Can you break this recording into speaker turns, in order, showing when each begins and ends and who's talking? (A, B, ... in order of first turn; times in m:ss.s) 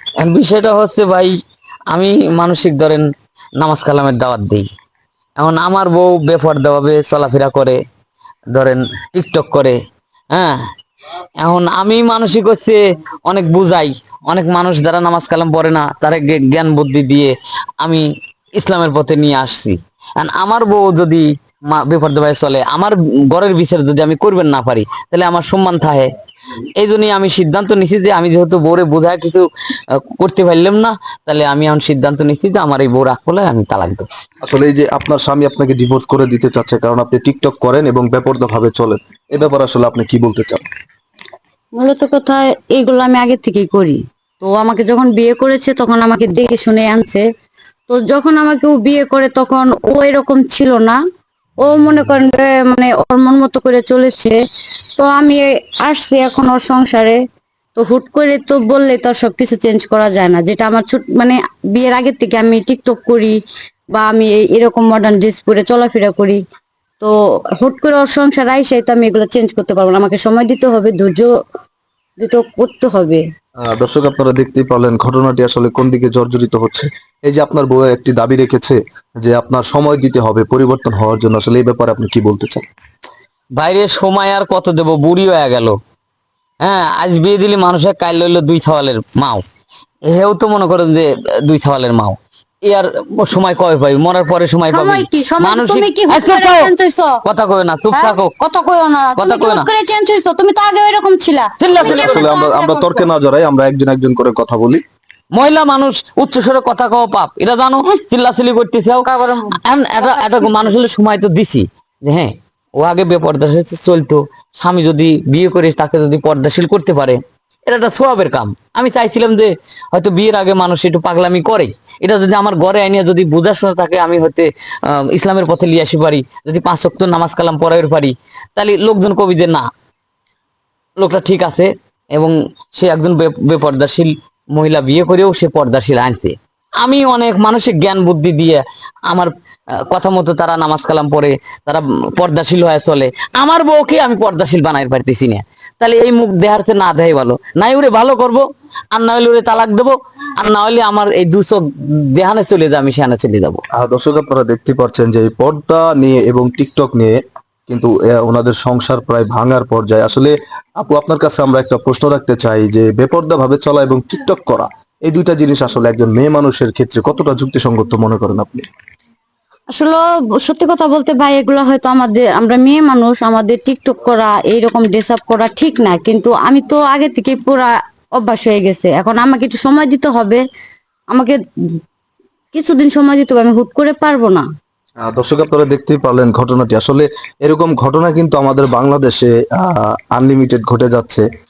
0:00.2-0:01.4 A
0:01.9-0:03.1 A
0:03.6-0:04.7 A
0:05.4-0:07.8 A
0:08.5-0:09.8 A
0:10.3-0:10.6 A
0:11.4-0:26.1 A
0:26.8-0:29.5 A
0:30.0-0:34.1 A
0:34.4-0:40.7 B
0:41.8-0:47.2 C
0:47.9-0:51.0 C
0:51.6-0:54.4 C
0:55.0-0:57.2 C
0:57.8-1:03.4 C
1:03.9-1:06.4 C
1:07.0-1:11.3 C
1:12.2-1:13.2 C
1:13.6-1:22.7 B
1:23.6-1:25.8 A
1:26.6-1:29.4 A
1:30.1-1:36.7 A
1:34.7-1:37.2 C
1:37.2-1:38.3 A
1:37.9-1:43.0 C
1:39.2-1:39.7 A
1:41.6-1:42.3 A
1:41.8-1:44.8 B
1:45.3-1:49.1 A
1:49.0-1:50.7 C
1:49.6-2:09.7 A
2:11.0-2:19.3 A
2:19.9-2:33.6 A
2:33.7-2:37.2 B
2:37.7-2:48.7 B
2:49.8-3:00.4 C
3:02.5-3:04.4 C
3:05.0-3:11.2 B